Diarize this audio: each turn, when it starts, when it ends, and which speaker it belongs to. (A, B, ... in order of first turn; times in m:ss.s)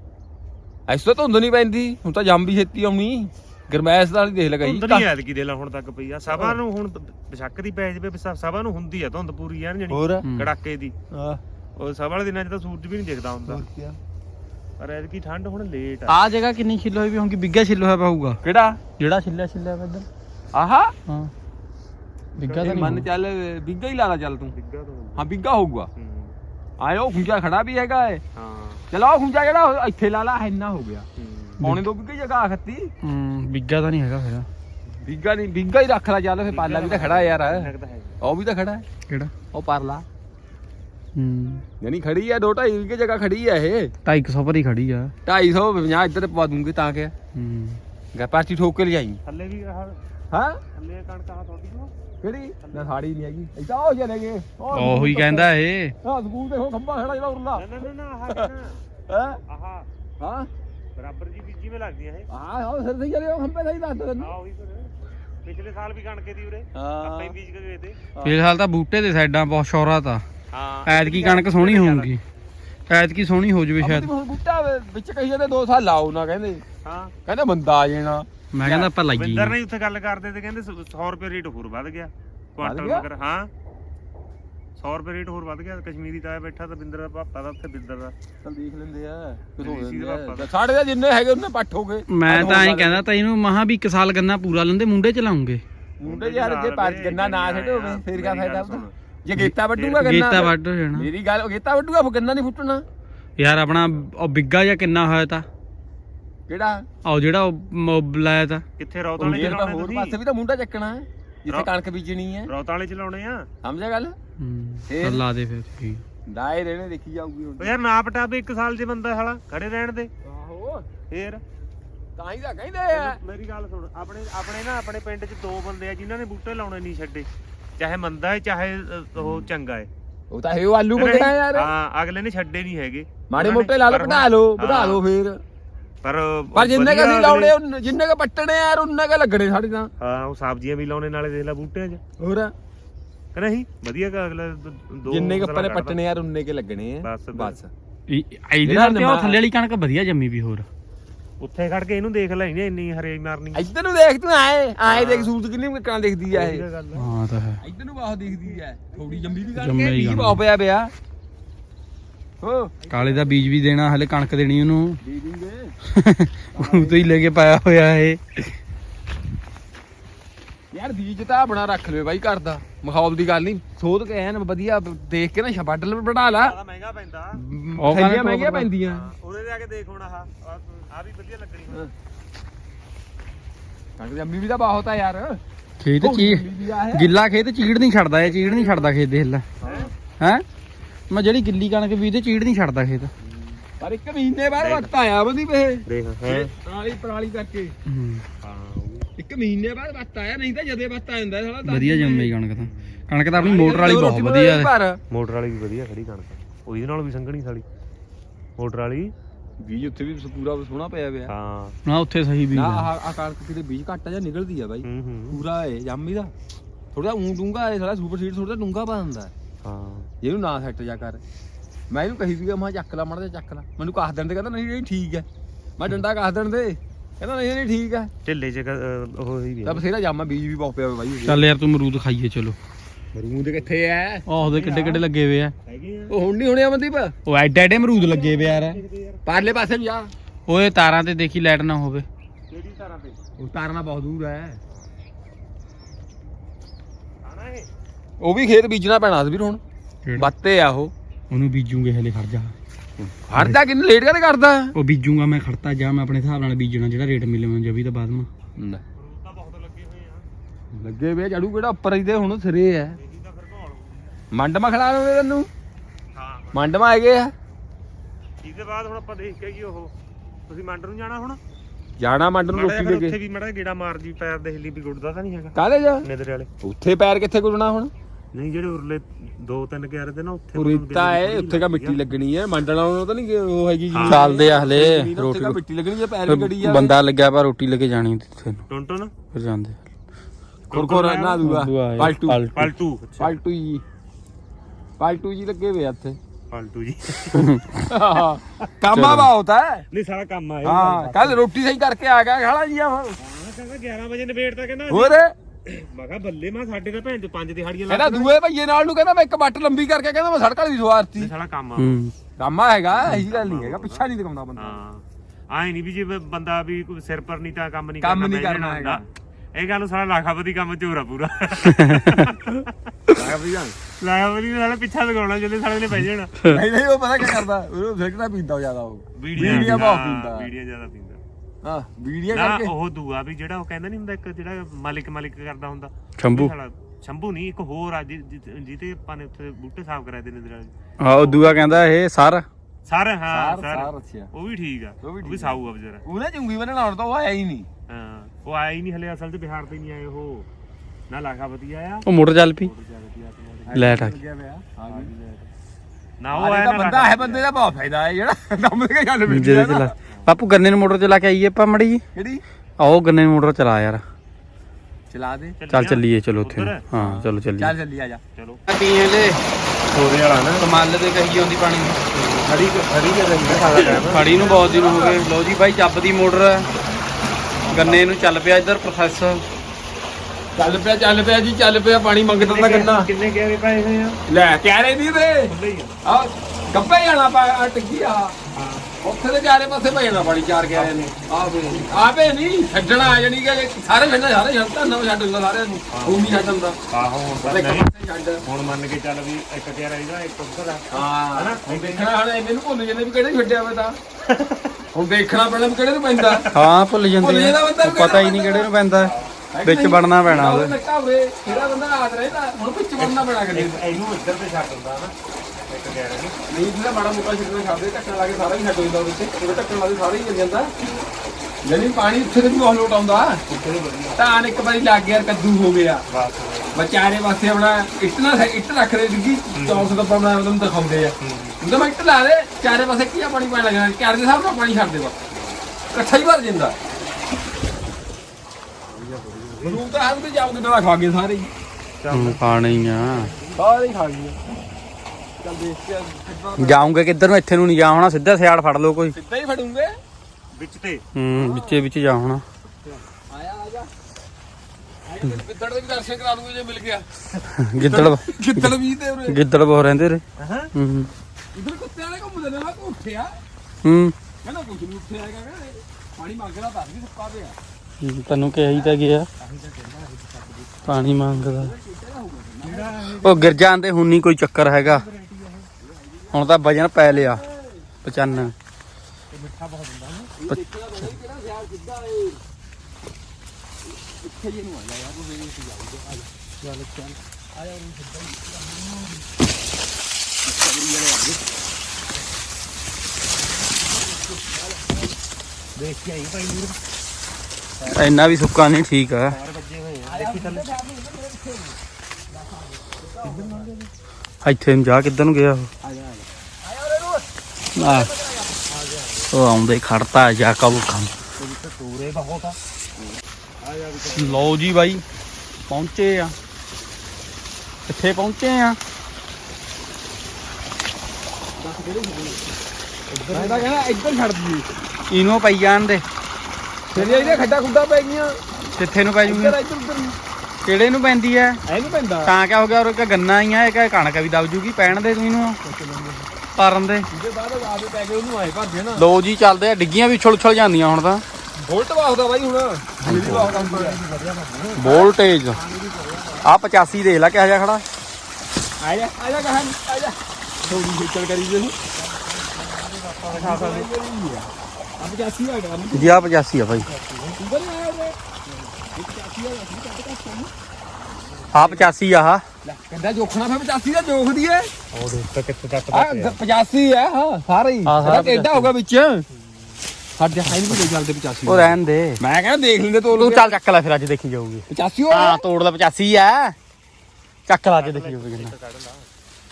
0:00.9-0:05.1 A
0:04.6-0:10.9 B
0:06.3-0:06.6 A
0:09.9-0:10.2 A
0:10.2-0:10.5 C
0:11.1-0:11.4 A
0:11.8-0:13.6 B
0:13.5-0:14.0 A
0:14.8-0:16.2 B
0:16.1-0:18.4 C
0:18.4-0:18.8 A
0:19.0-0:20.1 C
0:20.5-0:20.9 A
0:21.0-0:21.3 C
0:22.4-0:22.9 B
0:22.4-0:23.1 C
0:22.6-0:24.5 A
0:24.5-0:25.2 B
0:25.2-0:25.9 A
0:26.0-0:26.4 B
0:26.8-0:28.2 A
0:28.3-0:28.8 B
0:28.9-0:31.1 A
0:31.2-0:31.6 B
0:31.6-0:31.9 C
0:31.6-0:32.9 A
0:33.0-0:34.5 C
0:35.0-0:37.7 A
0:36.5-0:38.2 B
0:38.2-0:38.8 A
0:39.5-0:40.0 A
0:41.1-0:41.6 C
0:41.8-0:43.9 A
0:44.0-0:45.1 C
0:45.2-0:47.1 A
0:47.3-0:47.8 C
0:48.1-0:49.2 A
0:49.2-0:50.0 B
0:50.3-0:50.6 A
0:50.7-0:51.9 B
0:52.2-0:55.5 A
0:52.6-0:53.0 B
0:54.7-0:55.9 C
0:56.0-0:57.7 A
0:57.6-0:58.8 B
0:59.1-0:59.4 A
0:59.5-0:59.9 B
1:00.2-1:00.5 A
1:01.0-1:02.3 B
1:02.3-1:04.3 A
1:04.2-1:04.9 B
1:05.4-1:08.1 B
1:06.7-1:07.3 A
1:08.2-1:10.2 C
1:10.5-1:12.1 B
1:10.8-1:12.2 C
1:12.9-1:14.1 C
1:13.8-1:16.6 A
1:16.8-1:17.1 B
1:17.2-1:18.3 A
1:18.5-1:19.6 C
1:18.6-1:23.5 B
1:22.6-1:23.0 A
1:24.8-1:28.1 B
1:28.4-1:33.0 A
1:29.6-1:30.5 B
1:32.1-1:35.6 C
1:36.0-1:42.8 A
1:36.0-1:38.9 B
1:39.4-1:41.1 C
1:39.7-1:40.3 B
1:43.4-1:45.4 C
1:46.5-1:46.8 A
1:47.0-1:48.6 C
1:48.8-1:50.2 B
1:49.2-1:52.5 A
1:52.5-1:53.5 B
1:53.6-1:54.1 A
1:54.4-1:56.0 C
1:54.9-1:55.2 A
1:56.3-1:57.7 A
1:57.6-2:00.1 B
2:00.2-2:00.9 A
2:01.1-2:01.4 B
2:02.2-2:03.2 A
2:02.9-2:09.9 B
2:09.2-2:09.4 A
2:10.3-2:11.7 A
2:10.9-2:15.0 B
2:13.3-2:15.4 A
2:16.0-2:17.5 B
2:16.5-2:19.9 A
2:20.0-2:22.0 B
2:22.2-2:22.5 A
2:23.3-2:26.0 B
2:25.1-2:27.7 A
2:27.0-2:27.6 B
2:28.1-2:30.7 C
2:28.6-2:29.4 A
2:31.4-2:33.7 B
2:33.5-2:36.6 A
2:34.9-2:35.3 B
2:36.3-2:37.1 B
2:37.0-2:37.6 C
2:37.6-2:40.9 A
2:39.1-2:39.4 B
2:39.6-2:40.4 C
2:42.4-2:42.7 A
2:42.8-2:43.4 B
2:42.9-2:45.0 C
2:45.0-2:45.7 A
2:45.9-2:48.5 C
2:46.5-2:47.0 A
2:50.7-2:56.6 A
2:56.4-2:57.4 B
2:57.3-2:59.1 A
2:57.8-2:58.7 C
2:58.8-3:01.9 B
3:04.0-3:05.4 A
3:05.8-3:09.4 C
3:06.0-3:07.1 A
3:08.2-3:08.9 B
3:09.6-3:09.9 B
3:09.6-3:09.9 A
3:10.2-3:10.4 C
3:11.1-3:13.1 C
3:13.8-3:17.7 A
3:14.6-3:14.9 B
3:15.9-3:16.5 B
3:17.8-3:18.2 C
3:18.4-3:19.1 B
3:19.2-3:22.3 A
3:21.6-3:24.7 C
3:22.6-3:23.0 B
3:23.3-3:25.0 A
3:23.6-3:23.9 B
3:25.1-3:27.6 B
3:28.6-3:29.1 B
3:29.6-3:31.3 A
3:31.3-3:31.8 B
3:31.8-3:32.9 C
3:32.5-3:36.3 A
3:34.8-3:35.4 B
3:36.9-3:39.3 A
3:39.6-3:40.1 B
3:40.2-3:41.2 A
3:41.9-3:45.2 A
3:45.8-3:48.1 A
3:48.2-3:49.8 B
3:49.6-3:51.4 A
3:51.2-3:52.6 C
3:53.1-3:54.3 A
3:54.3-3:55.5 C
3:54.6-3:55.0 B
3:55.6-3:56.1 B
3:56.1-3:57.1 A
3:57.2-3:58.8 C
3:57.9-3:59.2 B
3:59.2-4:00.1 A
4:00.5-4:02.0 C
4:02.5-4:03.2 B
4:03.4-4:04.6 A
4:07.2-4:07.7 B
4:08.2-4:09.6 A
4:10.0-4:10.3 C
4:10.1-4:10.9 A
4:11.3-4:12.5 C
4:13.0-4:14.7 A
4:13.3-4:13.6 C
4:14.7-4:18.3 C
4:19.0-4:20.2 B
4:20.7-4:23.0 A
4:23.0-4:24.2 B
4:24.3-4:25.5 A
4:26.1-4:26.7 B
4:26.5-4:27.3 A
4:28.4-4:29.9 B
4:30.5-4:31.4 B
4:32.0-4:33.2 A
4:32.5-4:36.5 B
4:35.5-4:36.0 A
4:36.6-4:37.9 A
4:38.3-4:42.0 B
4:40.5-4:47.0 A
4:43.9-4:44.3 B
4:44.0-4:45.6 C
4:46.2-4:48.6 C
4:48.7-4:49.1 B
4:49.3-4:49.8 C
4:50.7-4:52.4 A
4:50.7-4:51.5 B
4:51.4-4:52.7 C
4:52.5-4:53.3 B
4:53.2-4:53.8 A
4:55.0-4:56.2 A
4:56.5-4:57.5 B
4:57.3-4:57.9 C
4:57.9-4:59.8 A
4:58.9-4:59.3 C
4:59.9-5:01.4 B
5:00.6-5:03.2 A
5:03.2-5:08.3 B
5:04.9-5:05.3 A
5:07.9-5:11.3 A
5:11.2-5:12.0 B
5:11.8-5:12.1 C
5:12.4-5:14.8 A
5:13.0-5:14.0 B
5:14.6-5:19.0 B
5:18.0-5:19.0 A
5:19.5-5:26.4 B
5:21.6-5:22.3 C
5:26.4-5:30.5 A
5:29.2-5:31.2 B
5:29.4-5:29.8 C
5:31.6-5:32.7 A
5:32.3-5:41.7 B
5:36.2-5:36.5 C
5:41.0-5:42.4 C
5:42.9-5:46.0 B
5:43.3-5:44.3 A
5:45.0-5:47.7 A
5:47.9-5:50.5 B
5:51.1-5:52.0 B
5:52.0-5:52.7 C
5:52.6-5:54.1 B
5:53.6-5:55.1 A
5:53.7-5:54.2 C
5:54.9-5:55.5 B
5:56.2-5:57.4 B
5:56.3-5:59.9 A
5:59.3-6:02.0 C
6:00.1-6:00.3 B
6:02.1-6:02.4 A
6:02.8-6:04.0 C
6:05.1-6:05.6 A
6:05.6-6:06.8 B
6:05.7-6:07.7 C
6:07.0-6:08.2 A
6:08.3-6:08.6 B
6:08.7-6:09.4 C
6:09.9-6:10.6 B
6:10.6-6:12.3 C
6:12.4-6:15.2 B
6:13.5-6:15.2 A
6:14.0-6:16.6 C
6:17.7-6:18.1 B
6:17.7-6:19.4 C
6:20.6-6:23.1 A
6:22.4-6:24.2 B
6:24.3-6:25.5 A
6:25.4-6:26.0 B
6:26.0-6:28.4 A
6:28.5-6:28.9 B
6:29.0-6:36.8 A
6:30.6-6:31.9 B
6:35.9-6:37.9 B
6:37.4-6:38.4 A
6:38.4-6:42.1 B
6:40.9-6:44.0 A
6:44.2-6:44.8 B
6:44.9-6:46.5 A
6:46.2-6:46.7 B
6:46.5-6:50.7 C
6:47.2-6:48.7 A
6:49.0-6:49.3 B
6:49.5-6:53.8 A
6:51.4-6:51.8 B
6:53.0-6:55.1 B
6:55.7-6:56.4 B
6:56.5-7:00.7 A
7:01.6-7:03.4 A
7:03.5-7:04.2 B
7:04.2-7:06.0 A
7:06.1-7:06.8 B
7:06.7-7:15.2 A
7:09.5-7:09.9 B
7:11.2-7:11.6 B
7:15.9-7:16.8 A
7:19.0-7:19.8 B
7:19.6-7:21.5 A
7:22.0-7:23.6 B
7:22.1-7:23.3 C
7:23.6-7:24.4 A
7:25.4-7:26.9 A
7:26.6-7:29.1 C
7:29.1-7:30.0 A
7:30.5-7:31.0 B
7:31.1-7:32.4 C
7:31.3-7:31.8 A
7:33.3-7:33.9 A
7:35.0-7:37.1 A
7:37.6-7:38.7 C
7:37.7-7:39.4 A
7:39.3-7:40.2 C
7:40.4-7:40.7 B
7:40.7-7:41.1 C
7:41.5-7:43.4 A
7:43.8-7:44.1 C
7:44.4-7:47.6 A
7:48.0-7:49.3 C
7:49.4-7:50.7 B
7:50.8-7:53.0 A
7:50.8-7:51.7 C
7:52.6-7:53.6 B
7:53.2-7:55.0 C
7:54.8-7:55.7 B
7:55.8-7:57.9 A
7:56.3-7:57.4 C
7:58.0-7:58.5 C
7:59.3-8:00.3 B
8:00.4-8:02.4 A
8:03.8-8:06.3 A
8:06.6-8:07.0 C
8:07.5-8:09.2 A
8:10.4-8:11.4 A
8:14.0-8:15.1 A
8:15.8-8:16.8 B
8:17.9-8:19.4 C
8:19.2-8:20.7 B
8:20.0-8:21.8 A
8:22.3-8:23.7 A
8:23.2-8:23.9 B
8:24.4-8:25.7 C
8:25.8-8:28.6 A
8:27.8-8:28.1 C
8:28.7-8:29.3 B
8:29.3-8:31.1 C
8:31.4-8:32.6 B
8:33.6-8:34.6 B
8:34.1-8:35.0 C
8:35.7-8:36.3 C
8:37.9-8:38.8 C
8:41.6-8:42.4 A
8:43.1-8:43.7 B
8:43.3-8:44.6 A
8:45.1-8:46.0 C
8:46.9-8:48.4 A
8:47.0-8:47.4 B
8:48.8-8:49.6 C
8:49.2-8:50.2 A
8:50.6-8:51.6 C
8:51.7-8:52.3 A
8:52.2-8:55.6 C
8:55.6-8:56.3 A
8:56.6-8:57.1 C
8:57.1-8:59.0 A
8:59.0-9:01.2 C
9:01.6-9:04.0 A
9:03.0-9:03.5 C
9:03.2-9:06.5 B
9:04.8-9:05.6 C
9:06.4-9:07.8 C
9:08.8-9:11.8 A
9:12.0-9:13.9 B
9:13.3-9:16.3 A
9:15.9-9:16.9 C
9:16.8-9:17.4 B
9:17.4-9:18.2 A
9:18.8-9:20.5 A
9:21.5-9:21.8 B
9:21.5-9:22.4 C
9:22.6-9:24.7 A
9:24.9-9:26.4 B
9:25.9-9:29.2 A
9:27.8-9:28.7 C
9:29.4-9:29.8 B
9:30.2-9:33.5 A
9:30.5-9:30.8 C
9:31.4-9:32.2 C
9:33.1-9:36.6 C
9:34.7-9:35.4 A
9:37.5-9:38.5 C
9:37.8-9:39.1 B